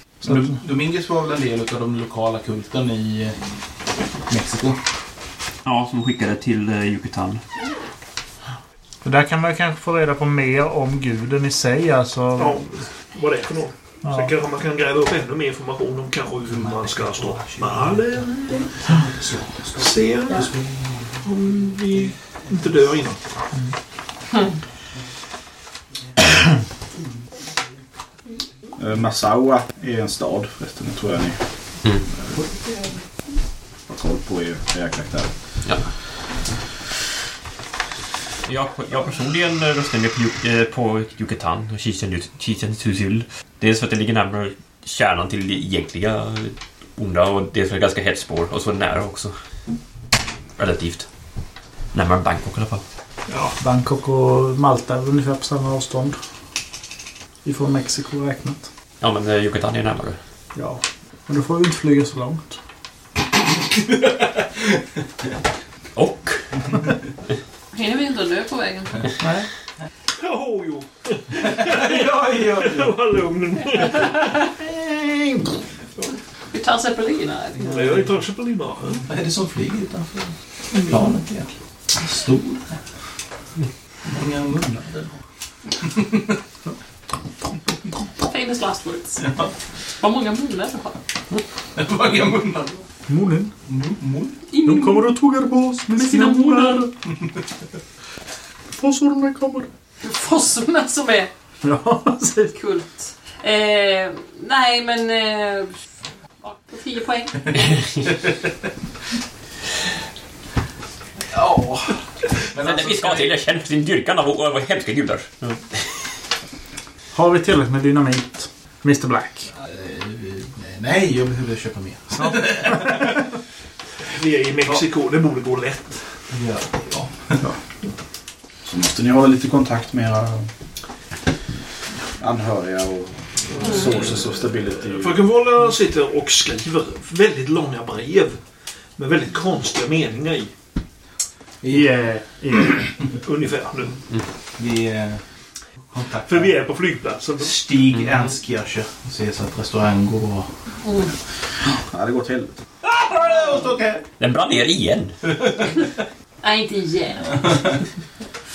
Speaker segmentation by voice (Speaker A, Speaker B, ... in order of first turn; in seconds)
Speaker A: 0.2-3.4, 4.3-4.8, 16.4-21.1, 71.4-72.9, 79.0-82.8, 84.0-85.2, 85.8-86.2, 89.2-89.5, 91.7-92.9, 93.7-94.4, 108.0-108.3, 111.3-112.0, 112.5-113.3, 119.6-123.2, 126.3-127.4, 144.6-145.2, 145.9-146.6, 147.4-150.5, 152.8-154.0, 155.2-155.9, 157.4-157.8
Speaker B: 0.2-0.6, 9.0-12.7, 14.0-14.3, 53.6-56.2, 57.4-58.7, 60.5-62.6, 69.2-69.5, 74.6-75.5, 93.1-93.5, 94.6-96.9, 98.7-99.7, 101.6-102.5, 117.1-119.5, 141.7-142.9
Speaker C: 5.6-7.4, 38.5-49.3, 50.6-51.1, 51.9-52.8, 59.0-60.2, 65.9-66.5, 112.6-115.8, 154.2-155.2
Speaker D: 12.3-18.7, 19.8-20.5, 21.2-23.2, 53.3-53.5, 70.2-74.3, 77.6-79.0, 80.7-81.1, 124.1-126.0, 133.5-138.4, 139.0-140.5, 143.2-144.0, 146.2-147.6
Speaker E: 28.8-31.4, 33.9-35.3, 128.6-130.5, 132.2-135.2, 151.7-152.6
Speaker F: 67.7-68.9, 74.0-74.3, 76.5-77.8, 88.2-89.2, 90.0-91.0, 94.5-95.1, 95.9-96.9, 100.0-101.3, 102.5-105.8, 106.4-107.6, 150.8-151.1, 156.4-157.6